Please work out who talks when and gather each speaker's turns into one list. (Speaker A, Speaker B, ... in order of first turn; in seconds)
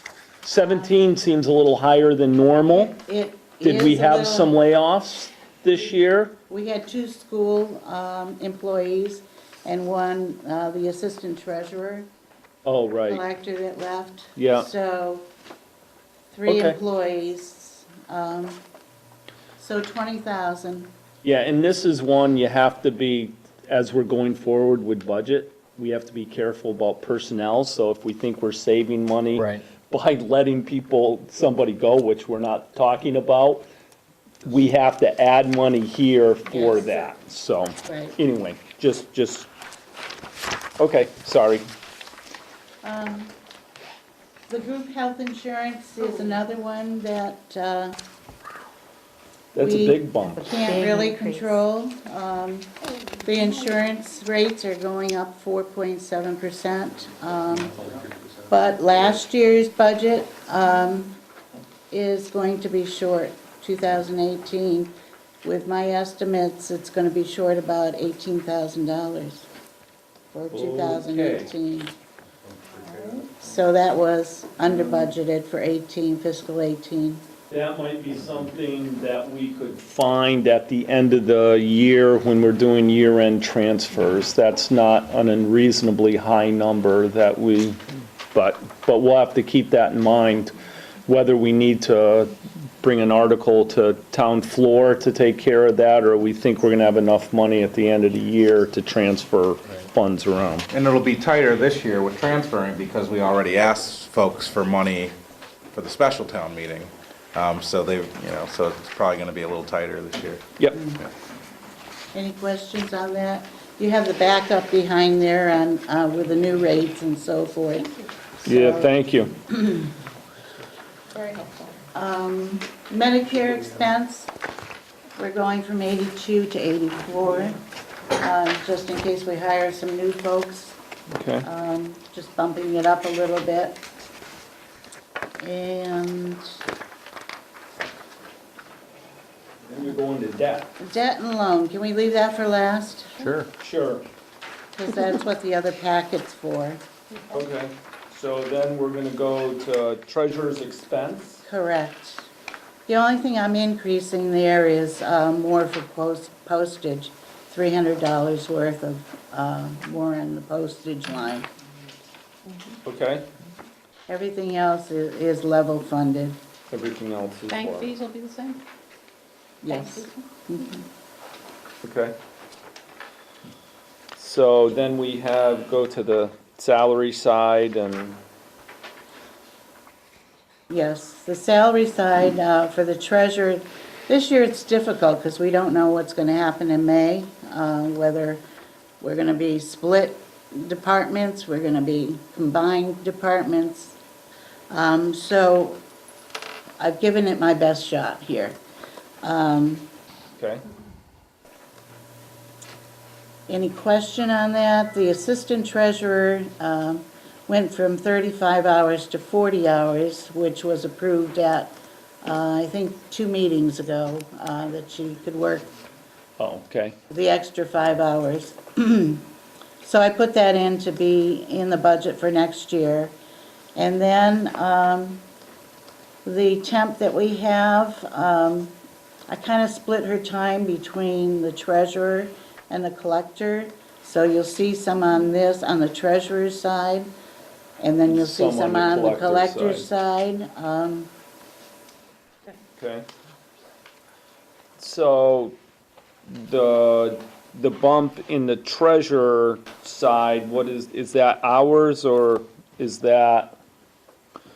Speaker A: 0.4-2.9, 3.6-6.4, 12.6-13.2, 14.3-14.7, 16.5-16.8, 21.2-33.7, 34.4-39.5, 40.8-41.6, 49.5-50.4, 70.5-71.5, 77.5-87.8, 88.3-90.5, 91.0-100.7, 118.4-119.3, 131.1-131.4, 139.7-140.7, 143.6-144.0, 147.3-151.4, 162.8-163.3, 166.7-167.9, 171.8-172.1, 174.2-178.2, 200.4-200.6, 216.4-216.9, 238.1-239.9, 242.8-243.1, 244.8-245.6, 246.3-253.6
Speaker B: 2.7-4.5, 6.5-12.1, 13.1-15.3, 16.3-18.6, 19.6-20.9, 36.5-37.1, 37.9-38.2, 42.8-43.3, 44.5-48.0, 49.6-52.7, 53.2-57.8, 58.5-61.2, 61.9-64.9, 65.4-69.5, 70.3-71.9, 73.3-77.2, 110.7-111.0, 112.1-118.9, 119.5-119.9, 121.9-124.3, 125.2-127.6, 128.1-130.8, 131.4-133.8, 135.4-136.5, 140.8-143.3, 144.7-146.8, 151.4-152.3, 152.9-161.5, 164.1-166.4, 169.6-170.8, 180.7-188.4, 189.0-194.0, 194.7-195.8, 196.8-198.6, 199.2-199.9, 203.5-215.7, 217.1-219.2, 219.8-223.1, 223.8-225.2, 226.2-228.7, 229.3-237.1, 237.8-241.1
Speaker C: 46.0-46.4, 50.3-51.6, 53.0-53.8, 121.1-121.8, 162.5-162.8, 167.5-168.6, 169.7-170.1
Speaker D: 72.5-73.2, 100.7-105.1, 105.7-110.4, 143.2-143.5